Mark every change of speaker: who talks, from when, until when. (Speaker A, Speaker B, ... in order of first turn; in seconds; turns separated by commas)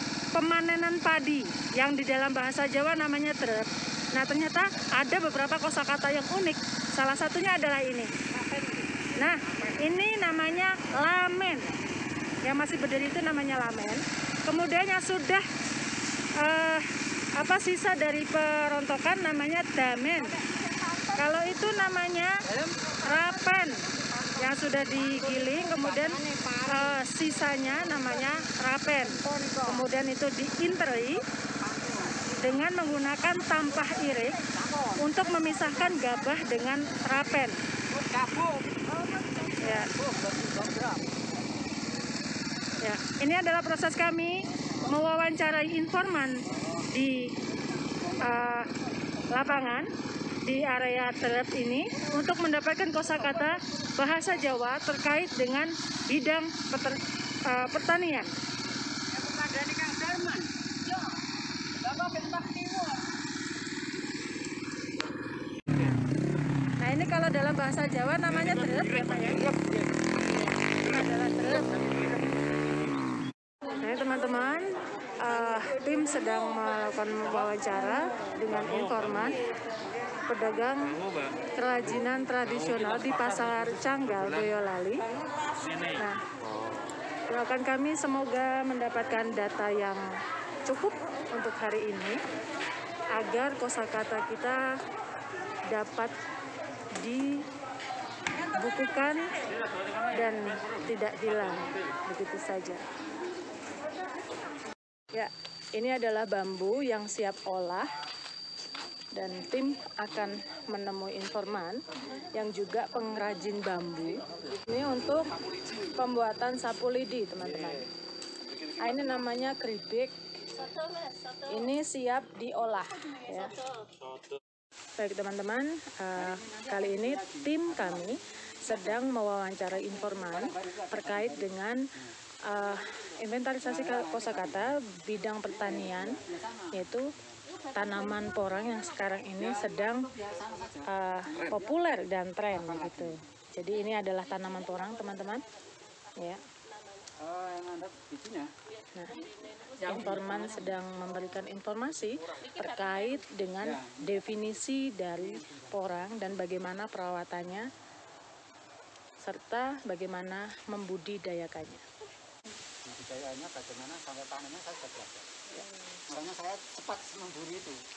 Speaker A: 0.3-8.1, Speaker A: 9.1-11.8, Speaker A: 12.4-15.4, Speaker A: 16.4-20.4, Speaker A: 21.1-22.4, Speaker B: 22.6-22.9, Speaker A: 23.0-31.2, Speaker B: 26.1-26.5, Speaker B: 31.7-32.2, Speaker A: 32.4-34.4, Speaker B: 34.7-34.9, Speaker A: 35.0-37.6, Speaker B: 38.0-41.2, Speaker A: 39.6-39.9, Speaker A: 42.8-47.3, Speaker A: 48.2-48.7, Speaker A: 49.3-49.9, Speaker A: 50.4-57.0, Speaker A: 57.5-58.3, Speaker B: 59.2-60.5, Speaker B: 61.8-63.0, Speaker A: 66.8-69.6, Speaker A: 70.8-71.7, Speaker A: 73.8-79.4, Speaker A: 80.2-81.0, Speaker A: 81.5-85.1, Speaker A: 85.8-86.2, Speaker A: 87.3-90.0, Speaker A: 90.7-92.2, Speaker A: 93.1-94.6, Speaker A: 95.7-96.1, Speaker A: 97.0-97.4, Speaker A: 98.5-99.3, Speaker A: 100.1-102.8, Speaker A: 105.1-107.9, Speaker A: 109.1-111.8, Speaker A: 112.3-115.3, Speaker A: 115.9-117.9, Speaker A: 118.7-120.1, Speaker A: 121.5-123.6, Speaker A: 125.0-131.8, Speaker B: 126.2-129.0, Speaker B: 130.3-132.1, Speaker A: 132.5-136.2, Speaker B: 133.6-134.7, Speaker B: 135.5-137.4, Speaker A: 136.7-137.1, Speaker A: 137.7-140.1, Speaker B: 139.4-141.8, Speaker A: 140.9-145.5, Speaker B: 142.5-143.3, Speaker B: 147.2-148.5, Speaker A: 148.9-149.2, Speaker A: 149.8-157.7, Speaker B: 149.8-150.8, Speaker B: 153.6-154.5, Speaker B: 155.2-156.0, Speaker A: 159.2-161.8, Speaker B: 162.8-165.4, Speaker B: 166.1-167.8